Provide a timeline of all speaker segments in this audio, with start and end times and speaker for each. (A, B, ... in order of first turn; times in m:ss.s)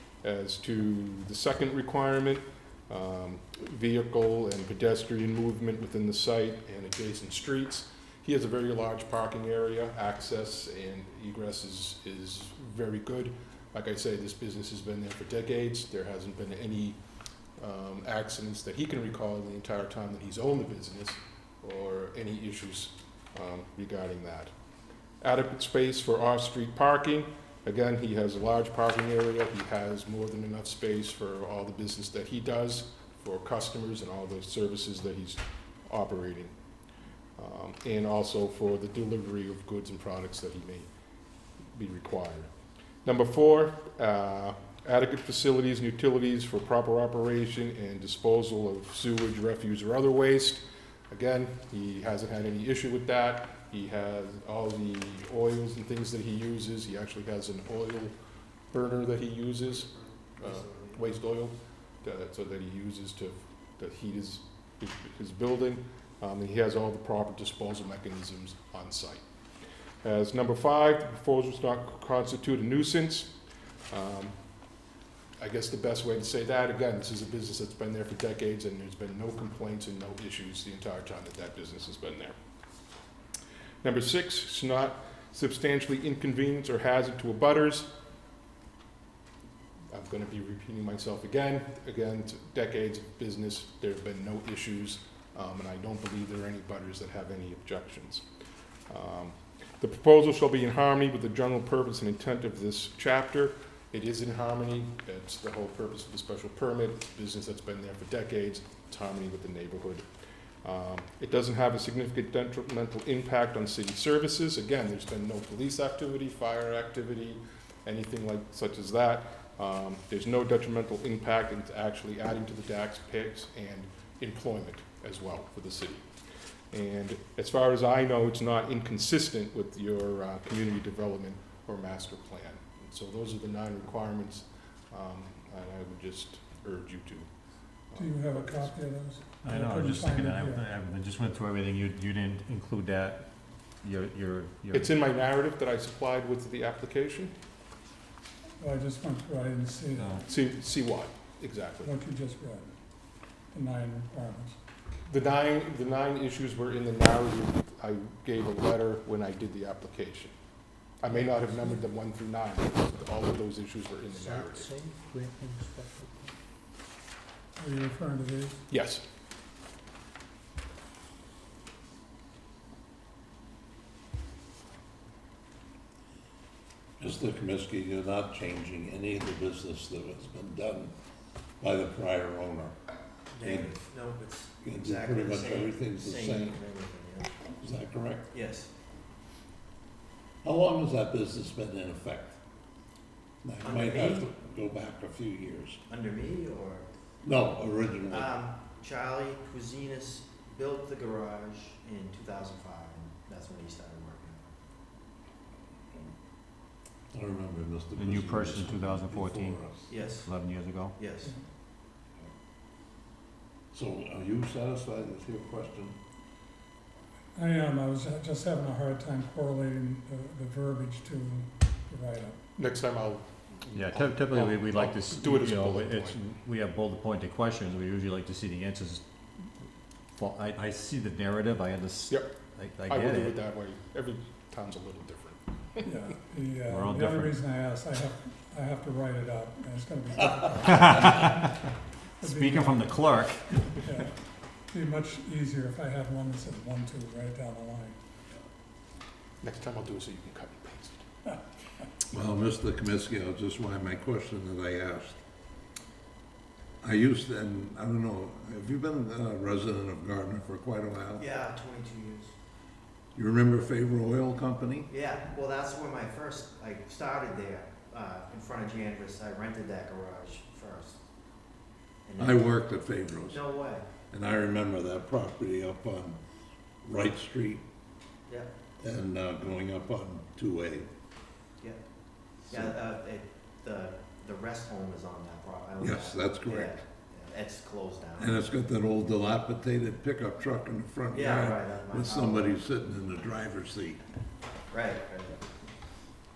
0:00.2-0:17.0 A
0:17.6-0:24.5 A
0:25.2-0:36.5 A
0:37.4-0:40.9 A
0:41.7-0:42.5 A
0:43.0-0:58.1 A
0:58.7-1:09.2 A
1:00.4-1:01.0 B
1:10.0-1:13.3 A
1:13.9-1:14.4 A
1:15.4-1:22.3 A
1:23.8-1:27.9 A
1:29.9-1:38.2 A
1:38.9-1:50.0 A
1:50.6-2:06.1 A
2:06.7-2:17.3 A
2:17.9-2:18.7 A
2:17.9-2:20.6 C
2:19.4-2:23.2 D
2:23.8-2:24.9 D
2:24.7-2:27.3 A
2:28.6-2:30.3 C
2:29.9-2:30.2 D
2:30.3-2:32.0 A
2:31.8-2:32.7 C
2:33.5-2:34.6 C
2:35.1-2:40.3 A
2:41.0-2:44.7 A
2:44.6-2:45.8 D
2:47.6-2:48.6 C
2:48.7-2:49.0 A
2:57.0-3:00.9 E
3:01.6-3:02.8 E
3:03.3-3:07.4 B
3:03.4-3:03.8 E
3:04.6-3:06.6 E
3:07.6-3:08.3 E
3:08.3-3:08.7 B
3:10.4-3:12.4 E
3:13.4-3:15.8 E
3:13.6-3:14.3 B
3:15.9-3:16.9 B
3:17.2-3:18.3 E
3:18.1-3:24.5 B
3:27.1-3:29.9 E
3:28.0-3:29.6 D
3:29.9-3:30.3 B
3:30.2-3:31.0 D
3:31.0-3:31.3 B
3:33.7-3:36.0 E
3:37.3-3:42.4 C
3:42.6-3:46.2 A
3:43.7-3:49.0 D
3:50.2-3:53.4 D
3:52.9-3:55.9 A
3:55.8-4:01.6 C
3:56.7-3:57.4 D
4:00.6-4:01.5 D
4:02.2-4:03.6 D
4:02.2-4:02.9 C
4:03.6-4:04.1 C
4:04.7-4:08.0 C
4:09.4-4:11.0 A
4:12.1-4:15.2 E
4:16.8-4:21.2 E
4:21.2-4:22.3 B
4:23.1-4:24.9 E
4:24.9-4:31.0 B
4:32.0-4:32.6 B
4:32.2-4:33.4 E
4:33.3-4:33.8 B
4:34.1-4:36.2 E
4:36.8-4:37.6 E
4:38.8-4:40.9 E
4:42.5-4:48.4 B
4:45.8-4:46.8 E
4:48.2-4:54.0 E
4:51.1-4:52.6 B
4:54.7-4:55.4 B